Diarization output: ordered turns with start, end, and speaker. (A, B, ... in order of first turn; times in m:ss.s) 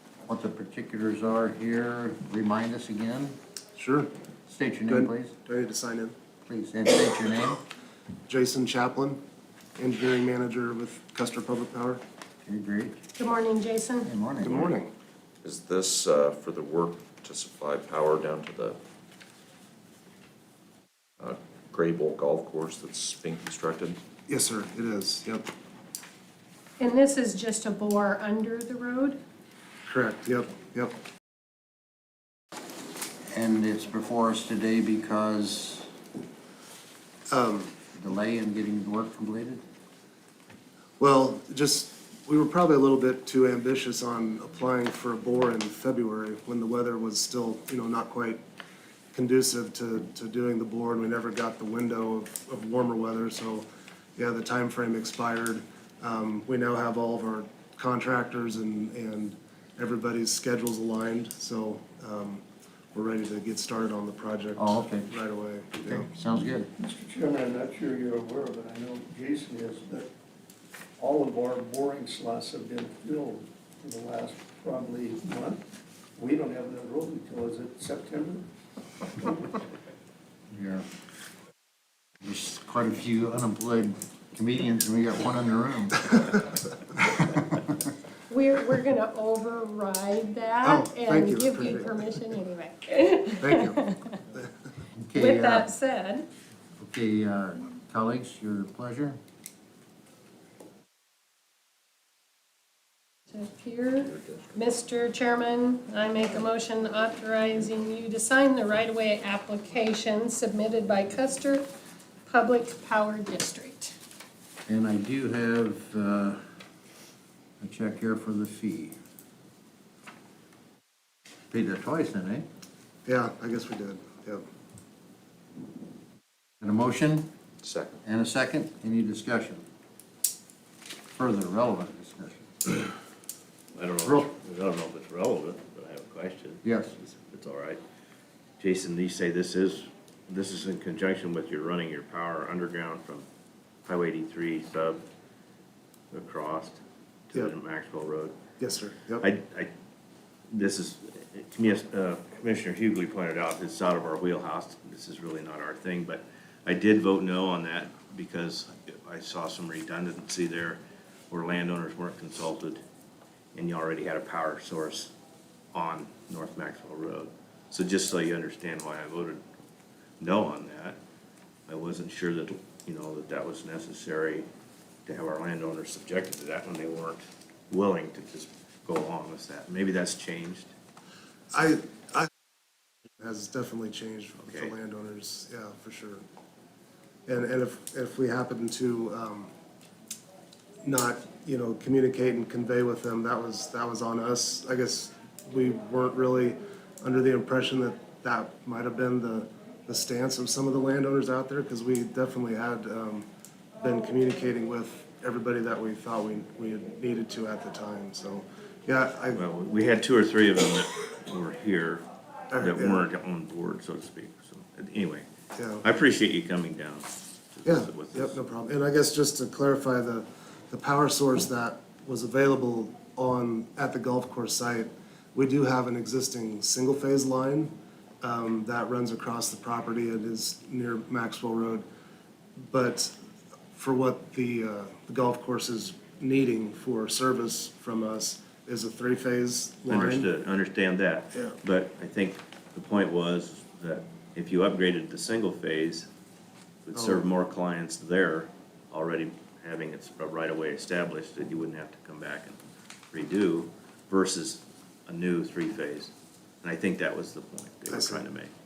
0:00.3-0:03.4 A
0:03.8-0:04.1 B
0:04.5-0:05.4 A
0:04.9-0:06.2 B
0:06.5-0:07.6 A
0:08.3-0:09.2 B
0:09.8-0:12.0 B
0:12.4-0:13.0 A
0:13.2-0:14.1 C
0:14.0-0:14.7 A
0:14.4-0:14.9 B
0:15.4-0:18.8 D
0:21.2-0:24.0 D
0:24.3-0:25.4 B
0:26.8-0:29.2 C
0:29.9-0:30.9 B
0:33.3-0:35.9 A
0:37.3-0:37.7 B
0:37.9-0:39.6 A
0:41.0-0:48.4 B
0:49.1-1:06.1 B
1:04.6-1:05.1 A
1:05.8-1:06.7 A
1:06.8-1:10.1 E
1:11.0-1:15.6 E
1:16.2-1:18.5 E
1:20.5-1:20.9 A
1:22.2-1:26.5 A
1:27.2-1:27.7 A
1:28.3-1:34.2 C
1:30.6-1:32.1 B
1:33.4-1:33.8 B
1:35.0-1:35.7 A
1:35.2-1:36.2 C
1:36.8-1:39.2 A
1:43.3-1:51.7 C
1:52.3-1:53.9 C
1:54.7-1:56.4 A
1:57.6-1:59.0 A
2:01.5-2:02.4 A
2:03.0-2:04.4 B
2:06.6-2:07.3 A
2:07.6-2:08.0 D
2:08.0-2:09.6 A
2:11.2-2:12.5 A
2:13.8-2:17.8 F
2:16.6-2:17.0 A
2:18.6-2:23.3 F
2:23.9-2:25.0 F
2:26.1-2:26.8 F
2:27.3-2:28.4 F
2:28.6-2:29.3 B
2:29.2-2:29.7 F
2:30.5-2:42.8 F
2:43.5-2:45.1 F
2:45.7-2:49.4 F
2:50.2-2:51.0 F
2:51.7-2:54.5 F
2:55.1-3:00.7 F
3:01.5-3:02.3 B
3:03.2-3:06.2 B
3:04.4-3:04.8 F
3:07.3-3:09.5 B
3:10.8-3:23.3 B
3:23.8-3:29.4 B
3:29.3-3:35.3 F
3:32.5-3:33.0 B
3:35.5-3:35.8 B
3:35.8-3:38.4 F
3:37.6-3:51.8 B
3:52.7-3:53.2 B
3:53.7-4:00.3 B
3:59.9-4:06.1 F
4:06.9-4:12.6 F
4:06.9-4:07.3 B
4:13.1-4:18.5 F
4:17.9-4:18.2 B